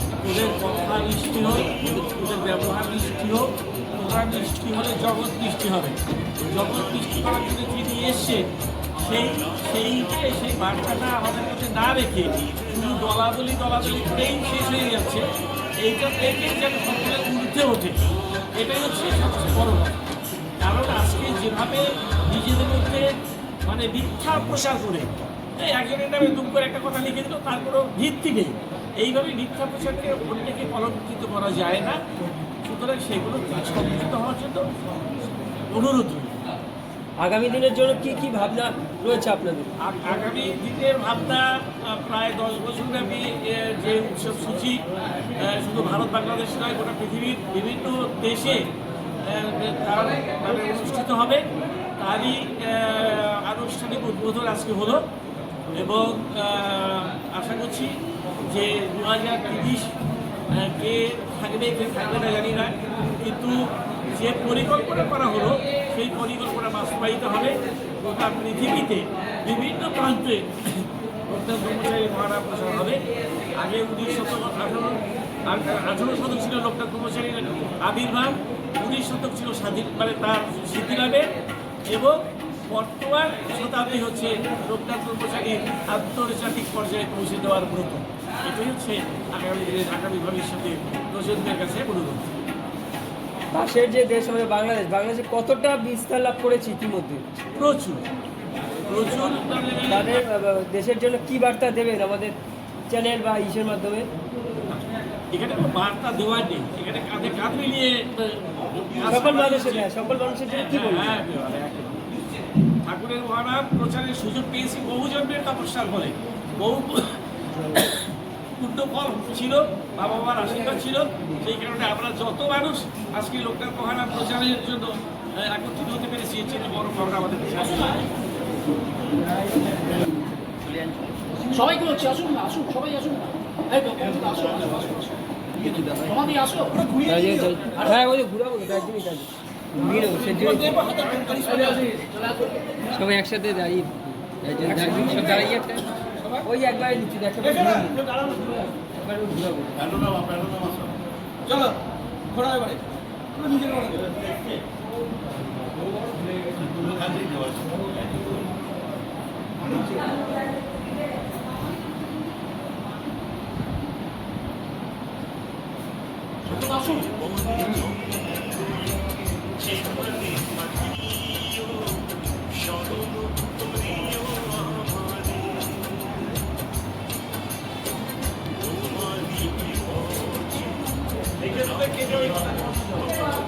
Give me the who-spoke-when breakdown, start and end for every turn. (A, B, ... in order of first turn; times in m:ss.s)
0:00.2-0:15.3 A
0:15.8-0:20.0 A
0:20.6-0:23.1 A
0:23.6-0:32.0 A
0:32.6-0:34.8 A
0:35.5-0:36.4 A
0:37.2-0:39.7 B
0:39.8-0:48.7 A
0:49.2-0:55.1 A
0:55.7-1:00.0 A
1:00.5-1:13.0 A
1:13.5-1:21.3 A
1:21.9-1:32.3 A
1:33.5-1:37.2 B
1:37.6-1:38.0 A
1:38.9-1:40.2 A
1:39.9-1:42.4 B
1:42.9-1:44.1 B
1:44.7-1:49.9 A
1:49.1-1:51.2 B
1:50.4-1:52.2 A
1:52.8-2:08.1 A
2:11.5-2:17.1 C
2:17.0-2:20.8 B
2:20.2-2:22.7 C
2:22.9-2:28.0 B
2:24.8-2:25.5 C
2:27.7-2:28.7 C
2:29.0-2:30.1 B
2:30.6-2:30.8 A
2:31.5-2:31.8 C
2:32.3-2:34.2 C
2:46.6-2:47.1 C
3:01.4-3:02.9 A